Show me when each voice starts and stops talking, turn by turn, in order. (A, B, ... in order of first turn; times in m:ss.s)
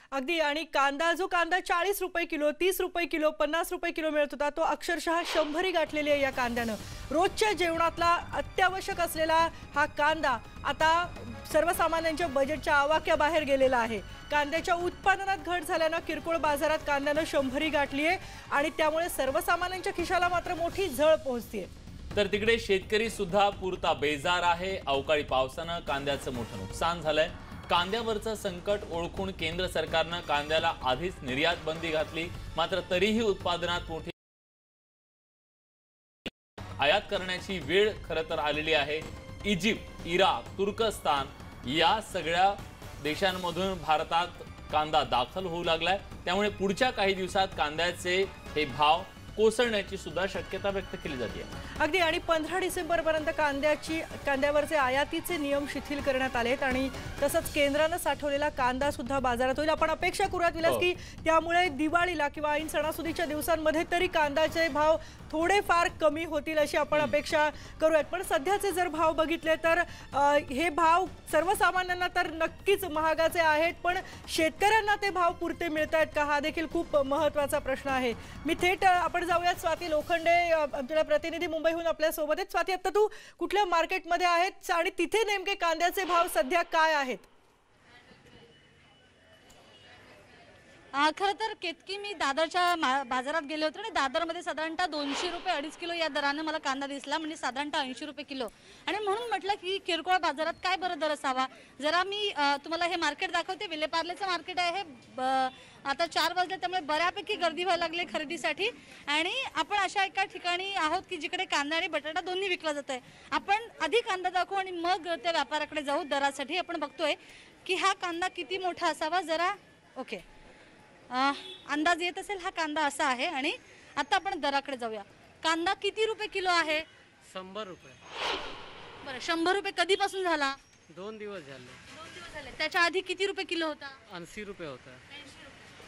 0:00.1-0:21.7 A
0:22.1-0:34.1 B
0:36.8-0:51.5 B
0:51.8-1:27.3 A
1:30.9-2:00.2 C
2:01.1-2:06.8 C
2:07.2-2:08.0 D
2:09.0-2:10.6 C
2:10.9-2:11.8 D
2:12.0-2:14.0 C
2:14.1-2:15.0 D